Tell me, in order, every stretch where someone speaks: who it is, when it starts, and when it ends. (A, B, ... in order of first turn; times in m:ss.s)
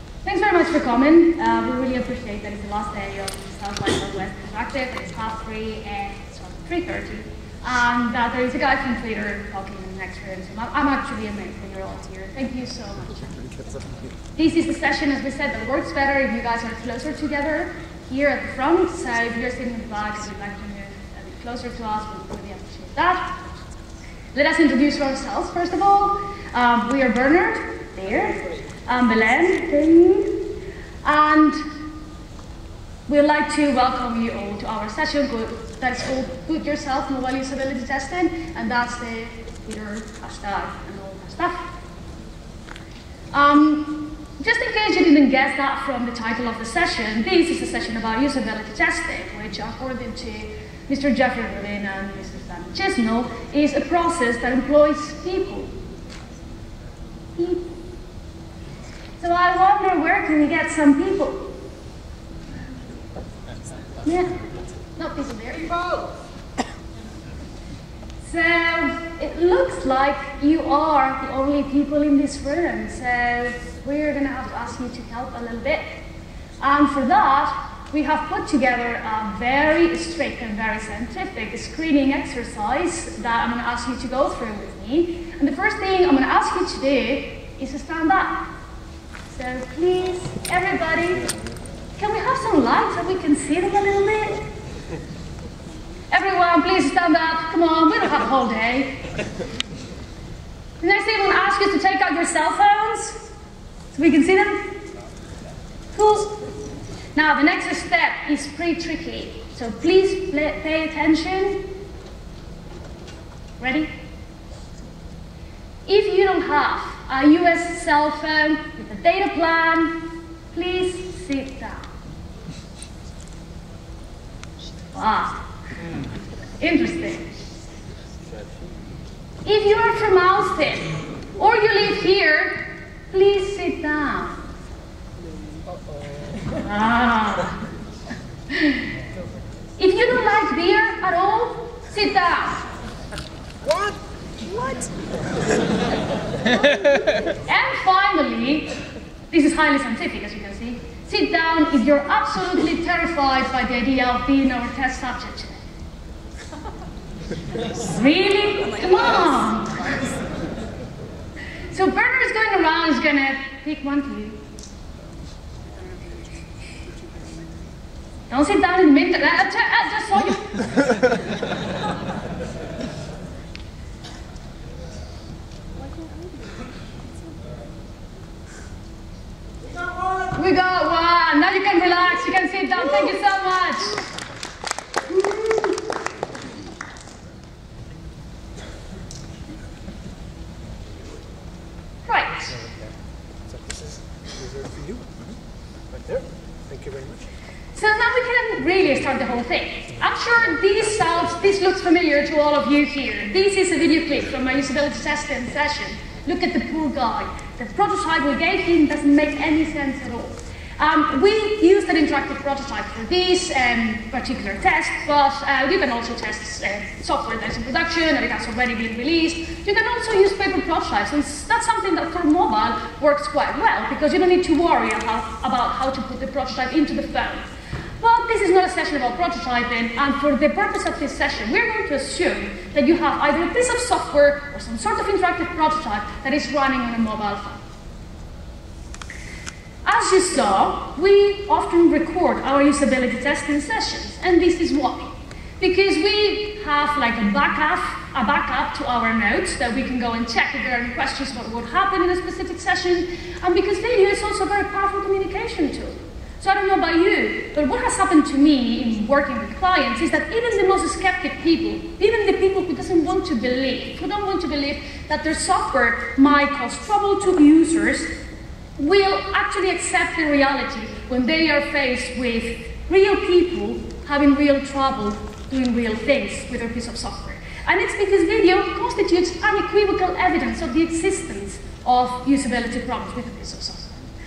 0:00.2-0:13.2 A
0:14.4-0:23.4 A
0:24.3-0:30.4 A
0:28.4-0:28.6 B
0:31.0-0:31.6 A
0:33.1-0:41.7 A
0:43.3-0:55.7 A
0:57.4-0:57.8 A
0:59.2-1:01.5 A
1:04.0-1:05.8 A
1:08.2-1:15.9 A
1:16.6-1:28.4 A
1:29.3-1:31.3 A
1:32.0-1:34.4 A
1:36.1-1:39.0 A
1:40.8-1:43.2 A
1:43.9-1:44.8 A
1:45.9-1:46.3 A
1:47.1-1:51.6 A
1:53.6-1:53.9 A
1:55.8-2:01.9 A
2:04.9-2:05.4 A
2:06.6-2:07.3 A
2:08.3-2:08.7 B
2:09.4-2:14.5 A
2:15.6-2:16.4 B
2:16.6-2:17.6 A
2:19.8-2:22.6 A
2:23.6-2:25.1 B
2:27.4-2:28.7 A
2:29.3-2:35.6 A
2:37.8-2:40.1 A
2:41.7-2:44.4 A
2:48.3-2:50.6 A
3:00.3-3:04.0 A
3:05.1-3:05.7 A
3:12.0-3:12.6 A
3:12.5-3:15.1 B
3:15.9-3:17.3 B
3:17.7-3:47.4 A
3:48.0-3:57.6 A
3:59.8-4:28.1 A
4:28.8-4:44.0 A